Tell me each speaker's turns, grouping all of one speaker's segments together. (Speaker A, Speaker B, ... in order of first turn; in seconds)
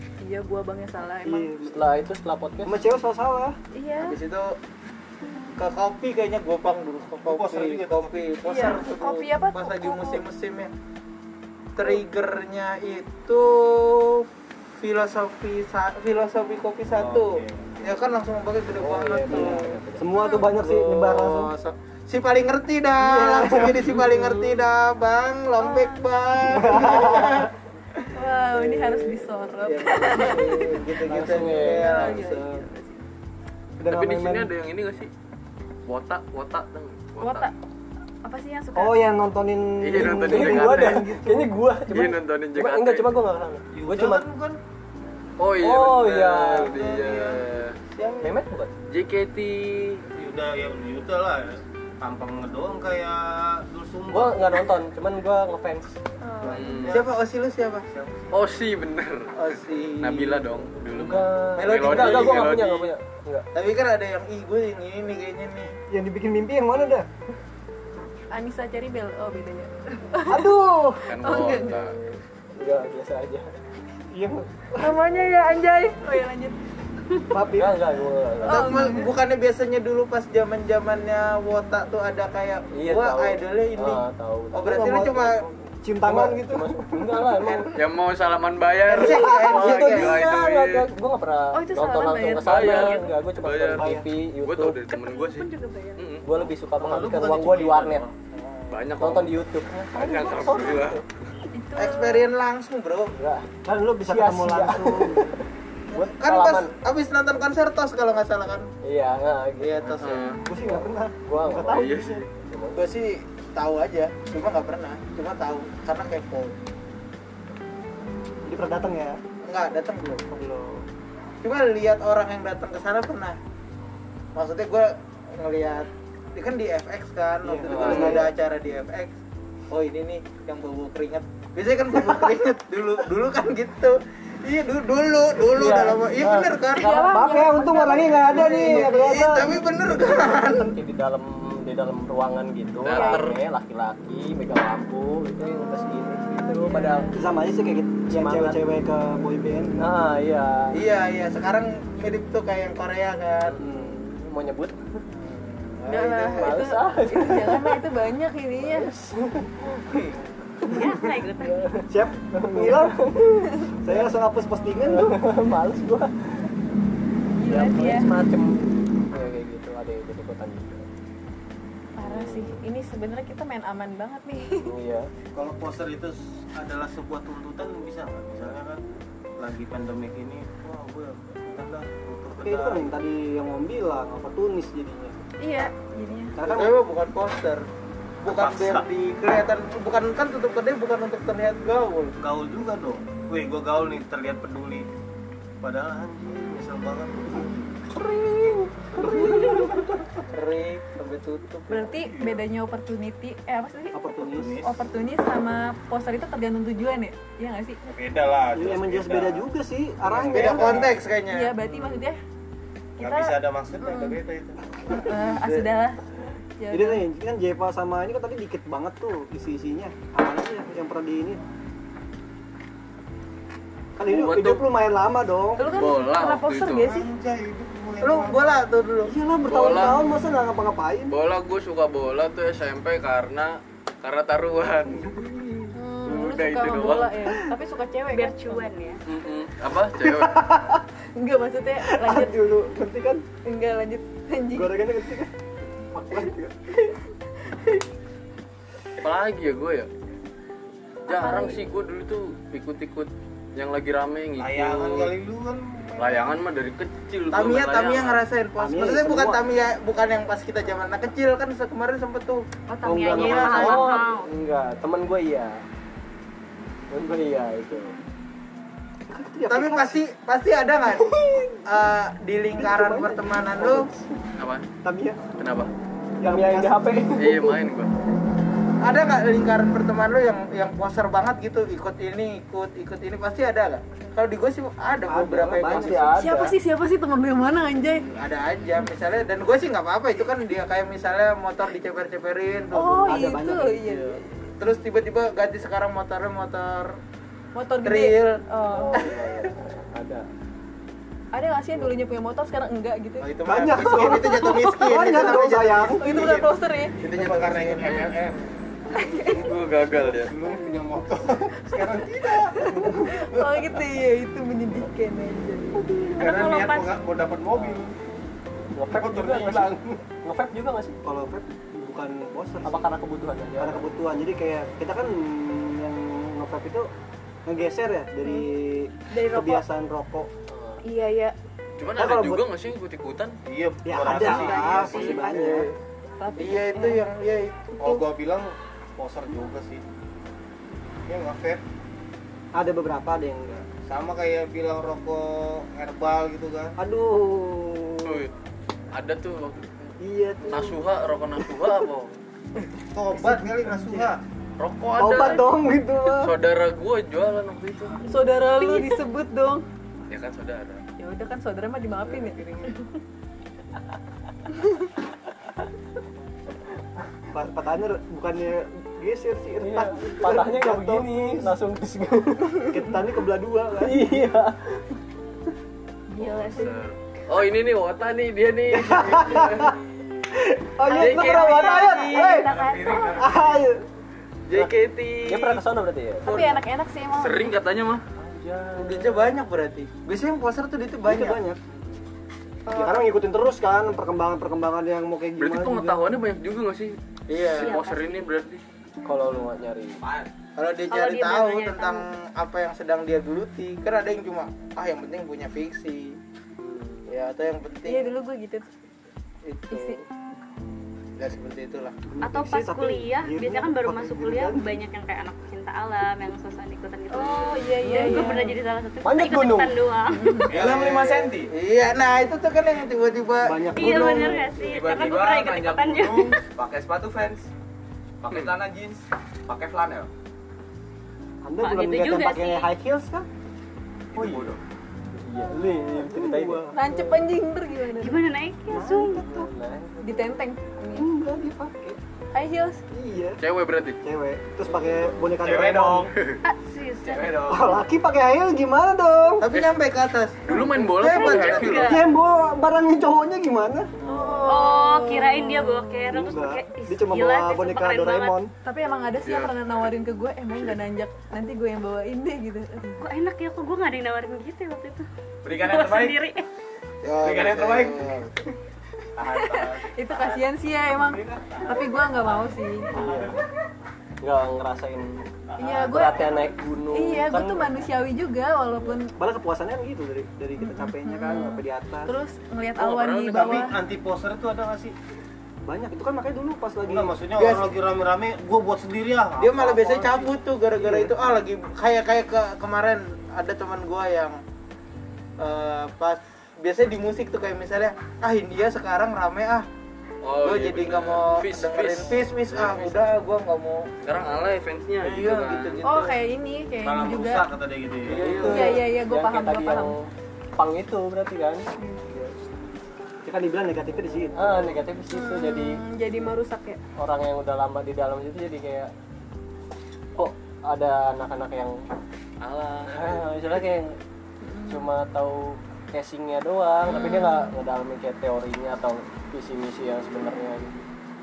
Speaker A: 0.2-1.6, 3.7-4.2, 8.4-10.2, 20.1-20.6, 25.6-26.1, 28.1-31.0, 31.6-33.0, 37.2-37.5, 38.2-39.1, 56.2-56.6, 68.3-70.6, 71.1-71.8, 74.8-76.6, 78.4-79.1, 91.5-93.0, 101.5-102.3, 136.7-139.2, 142.9-143.3, 145.6-147.3, 155.9-158.9, 167.4-168.2, 172.0-174.7, 185.4-186.4, 201.7-204.0, 204.6-207.8, 211.3-212.2, 213.0-214.2, 214.9-216.0, 216.6-217.1, 225.6-227.1, 235.7-238.7, 241.2-242.5, 243.4-244.8, 251.1-251.7, 286.1-288.1, 292.7-294.5, 297.5-299.1, 301.3-303.4, 304.4-304.7, 305.9-307.0, 308.9-309.5, 312.4-315.9, 328.2-328.5, 329.1-329.7, 330.8-331.3, 334.7-335.4, 336.2-337.1, 358.0-359.6, 361.0-362.8, 376.1-376.8, 380.9-383.3, 386.2-387.6, 392.6-393.2, 407.9-408.7, 409.7-410.0, 417.1-418.6, 420.1-420.5, 436.7-438.2, 440.0-441.1, 442.3-442.8, 454.1-456.2, 458.6-463.1, 469.3-473.0, 475.6-479.1, 480.6-483.8, 505.8-507.5, 508.4-509.9, 511.8-512.0, 515.1-516.8, 524.4-524.9, 527.0-527.4
Speaker B: 1.2-1.9, 2.6-3.6, 19.3-21.5, 23.0-24.1, 26.4-27.5, 31.2-31.6, 33.8-34.5, 38.7-41.5, 65.9-67.1, 70.3-71.1, 74.1-75.0, 77.3-78.1, 84.6-87.4, 93.7-94.1, 103.6-105.3, 110.5-112.2, 118.5-119.2, 120.3-120.8, 127.4-128.3, 136.9-139.6, 147.2-149.8, 161.9-163.1, 163.8-165.2, 182.4-185.2, 186.3-186.8, 199.2-199.6, 203.9-204.6, 208.5-210.9, 216.7-221.4, 224.0-225.7, 229.1-231.1, 235.1-235.7, 240.0-240.8, 241.8-243.2, 244.5-245.3, 245.9-246.9, 258.6-259.4, 262.8-263.9, 269.1-269.9, 271.1-271.6, 272.5-274.1, 274.8-275.2, 276.2-277.1, 285.1-286.2, 293.0-294.0, 303.4-306.2, 321.0-322.9, 323.6-326.9, 327.4-330.3, 331.9-332.4, 333.8-335.7, 342.5-343.6, 346.8-348.3, 350.0-350.8, 353.1-354.1, 354.9-356.3, 367.3-371.6, 372.7-374.1, 378.7-379.8, 380.3-382.5, 383.1-383.8, 390.9-391.6, 392.7-396.0, 412.1-414.7, 423.4-424.8, 431.4-433.3, 434.1-434.5, 435.5-436.8, 438.7-439.5, 440.9-442.0, 442.9-443.4, 444.0-446.1, 447.4-449.5, 451.7-453.9, 456.1-458.5, 479.1-482.1, 485.6-487.2, 490.8-491.1, 513.2-514.5
Speaker C: 1.6-2.8, 18.8-20.1, 31.1-31.9, 40.0-44.2, 45.6-46.7, 48.2-48.7, 54.1-56.0, 60.9-63.5, 71.3-73.4, 77.5-78.9, 82.7-84.8, 86.0-87.7, 88.9-94.8, 96.2-98.0, 99.0-101.0, 103.1-103.5, 104.0-105.4, 105.9-106.7, 108.8-110.0, 110.6-112.8, 127.7-128.3, 135.5-136.6, 140.1-147.1, 148.1-148.6, 149.8-150.8, 153.5-155.0, 156.3-157.8, 158.6-160.0, 160.6-164.0, 164.7-166.5, 167.4-170.8, 172.0-172.6, 174.6-175.1, 197.9-199.7, 262.9-265.6, 266.9-268.0, 276.2-277.5, 285.4-286.5, 298.7-300.2, 318.7-321.0, 322.6-323.9, 330.5-330.8, 335.3-335.6, 369.6-372.7, 373.8-374.8, 385.2-386.3, 388.2-389.3, 399.0-400.0, 406.6-407.1, 417.9-418.2, 419.0-419.8, 435.2-437.2, 439.1-440.3, 474.2-477.8, 508.2-510.0, 510.6-511.6, 514.3-515.8, 517.0-518.9, 520.1-521.8, 522.9-524.0, 524.7-530.7
Speaker D: 4.0-4.5, 5.6-10.7, 11.8-19.7, 20.6-32.6, 46.7-47.2, 47.9-48.3, 56.9-57.9, 59.3-60.6, 61.5-62.7, 63.5-65.8, 78.4-85.4, 87.4-87.7, 88.8-90.2, 98.3-98.8, 101.8-103.1, 105.9-108.7, 109.6-110.3, 112.7-116.5, 119.5-120.2, 121.4-123.4, 124.3-129.1, 129.7-137.1, 138.3-140.7, 150.7-153.6, 155.1-156.6, 186.4-187.7, 188.2-192.2, 200.3-201.9, 210.3-211.5, 228.0-229.1, 257.3-262.4, 263.1-263.9, 269.5-273.9, 278.8-286.2, 288.1-293.2, 294.6-297.0, 297.8-298.4, 298.9-299.3, 303.2-308.1, 336.4-338.0, 388.7-391.4, 397.3-397.8, 400.6-406.2, 407.1-408.1, 409.4-410.0, 411.2-411.9, 420.5-423.8, 449.4-451.8, 454.0-454.4, 467.0-468.4, 487.4-487.8, 489.4-494.4, 495.4-499.6, 500.4-503.9, 505.0-506.2
Speaker E: 7.2-8.4, 16.9-18.1, 43.7-44.6, 46.7-47.4, 50.1-54.7, 56.4-57.1, 57.9-58.3, 96.7-98.1, 175.3-178.8, 179.4-183.0, 188.2-188.8, 192.2-194.9, 195.6-197.7, 199.0-199.8, 202.0-202.4, 204.1-204.8, 207.8-209.5, 210.0-211.0, 213.0-214.6, 226.8-228.6, 254.4-256.4, 307.0-308.4, 309.4-313.8, 316.0-317.9, 318.9-320.0, 333.5-335.1, 337.8-339.8, 341.1-341.6, 343.7-346.8, 352.9-354.2, 420.6-420.8, 469.2-470.4, 470.9-472.3, 472.9-473.4, 475.5-476.4, 483.3-484.9, 486.8-490.3, 506.8-508.5
Speaker F: 33.8-35.1, 35.9-37.5, 39.8-41.1, 41.8-43.1, 45.4-47.8, 48.9-50.0, 56.5-57.0, 58.3-59.3, 60.0-62.9, 71.1-72.0, 87.7-90.9, 92.4-96.4, 98.7-101.0, 110.0-110.4, 111.7-112.2, 142.8-143.4, 224.0-224.7, 225.6-226.9, 229.4-230.0, 231.1-235.2, 236.1-237.2, 239.1-240.4, 249.0-249.9, 251.1-255.2, 256.0-258.2, 274.3-274.6, 275.4-275.7, 277.1-277.9, 309.2-310.3, 331.8-333.4, 334.4-335.3, 348.0-348.3, 348.9-349.9, 350.4-352.1, 354.6-358.1, 360.1-360.8, 376.2-383.2, 384.5-385.6, 386.3-386.6, 387.1-388.0, 395.4-398.6, 428.3-428.6, 443.4-444.0, 446.1-446.4, 447.0-447.8, 449.5-449.8, 450.4-452.0, 459.2-459.6, 482.8-483.6, 500.2-503.1, 504.0-505.8, 508.1-508.7, 522.4-523.6, 526.9-527.2
Speaker G: 94.9-96.2, 160.7-161.7, 238.1-239.0, 262.7-264.3, 316.2-317.1, 397.6-398.3, 400.9-402.1, 412.2-420.5, 423.7-426.4, 431.6-432.7, 438.0-439.2, 446.4-447.6, 451.0-452.1, 454.4-458.4, 463.0-466.5
Speaker H: 382.6-383.4, 400.0-400.3, 420.5-421.5, 424.6-427.5, 428.2-430.1, 434.1-434.6, 445.3-446.1, 465.4-466.2, 467.2-468.0, 469.2-469.6